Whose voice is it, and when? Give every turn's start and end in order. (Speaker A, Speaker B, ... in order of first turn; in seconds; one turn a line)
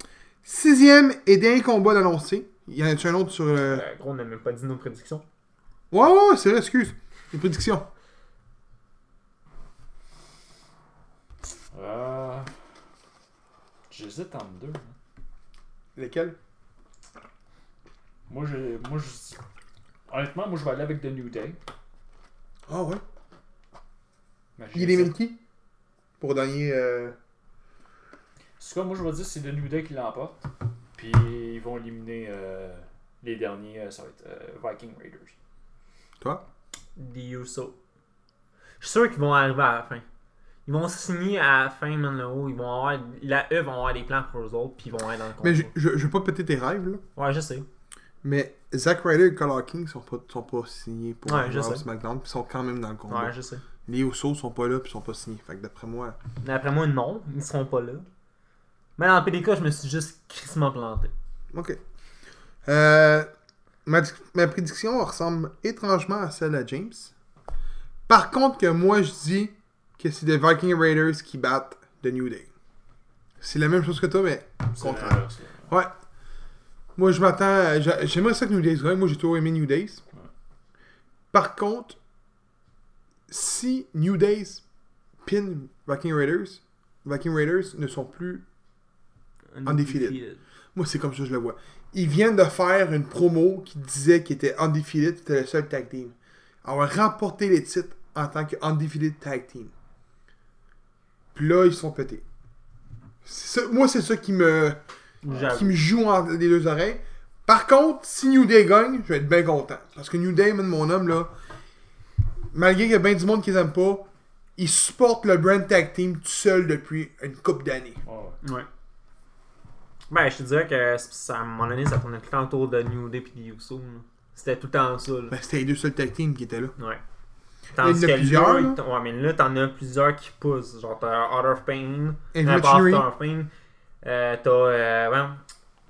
Speaker A: 0.4-3.8
Speaker B: 3.6-5.2
Speaker A: 5.9-7.9
Speaker C: 11.7-12.5
Speaker C: 13.9-14.9
Speaker A: 16.0-16.4
Speaker C: 18.3-19.4
Speaker C: 20.1-21.6
Speaker A: 22.7-23.0
Speaker C: 24.6-25.1
Speaker A: 24.7-25.4
Speaker A: 26.2-27.2
Speaker C: 28.6-30.4
Speaker C: 31.0-35.3
Speaker B: 37.0-37.8
Speaker B: 38.8-40.0
Speaker B: 40.7-45.7
Speaker A: 45.4-47.0
Speaker B: 47.2-47.7
Speaker A: 48.2-53.3
Speaker B: 51.2-51.8
Speaker B: 53.1-53.6
Speaker A: 53.9-56.2
Speaker B: 56.4-58.1
Speaker B: 59.0-61.1
Speaker A: 61.5-61.8
Speaker A: 62.6-63.3
Speaker A: 63.9-67.1
Speaker A: 68.1-72.5
Speaker A: 73.4-75.9
Speaker C: 74.7-75.7
Speaker A: 77.0-80.0
Speaker A: 81.3-82.0
Speaker A: 83.3-84.6
Speaker A: 85.2-88.4
Speaker B: 89.5-90.4
Speaker A: 89.7-90.2
Speaker A: 90.8-99.7
Speaker A: 101.3-102.2
Speaker A: 103.2-104.8
Speaker B: 105.2-105.8
Speaker A: 105.4-111.3
Speaker A: 112.5-118.0
Speaker C: 118.0-118.4
Speaker B: 118.4-118.7
Speaker B: 120.1-125.4
Speaker A: 125.3-126.8
Speaker B: 126.8-127.0
Speaker B: 127.7-133.5
Speaker A: 127.8-128.8
Speaker A: 132.3-133.1
Speaker B: 134.0-135.4